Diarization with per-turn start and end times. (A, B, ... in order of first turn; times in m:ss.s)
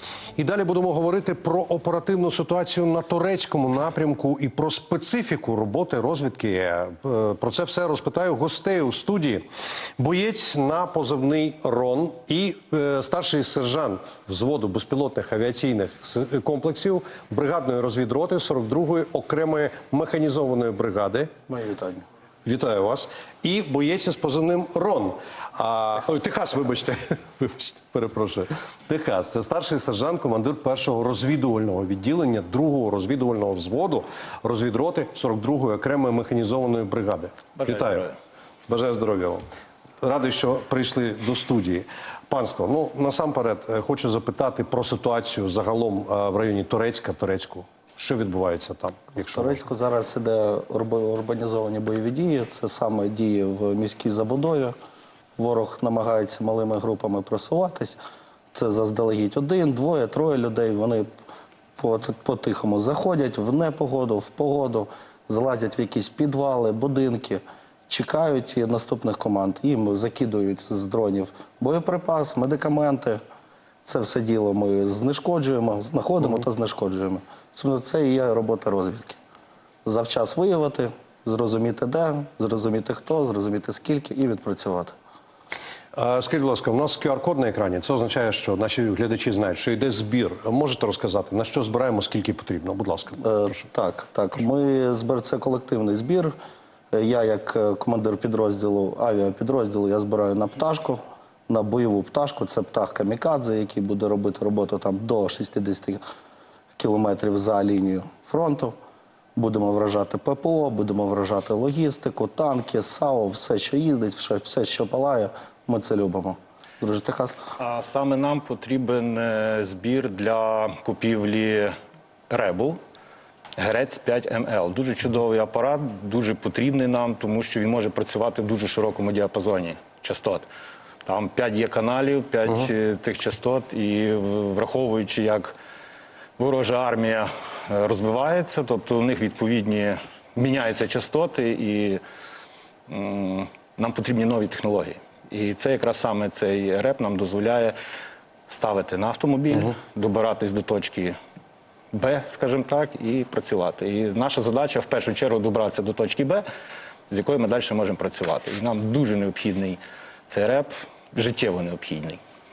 0:00.4-0:09.4 A
0:10.0-0:21.3 A
0:21.5-0:22.0 B
0:22.4-0:38.0 A
0:37.6-0:38.1 C
0:38.7-0:39.4 A
0:40.0-0:49.6 A
0:49.1-0:54.7 B
0:55.4-0:58.0 B
0:58.5-1:01.1 B
1:01.8-1:13.2 B
1:13.8-1:19.2 B
1:19.8-1:24.9 B
1:25.9-1:33.6 A
1:33.2-1:36.3 B
1:36.9-1:46.0 B
1:46.8-1:48.7 B
1:49.3-1:57.4 B
1:57.6-2:01.7 C
2:02.3-2:02.8 C
2:03.6-2:10.4 C
2:11.0-2:15.5 C
2:16.4-2:22.0 C
2:22.9-2:27.8 C
2:28.5-2:31.2 C
2:31.9-2:36.4 C
2:37.1-2:42.2 C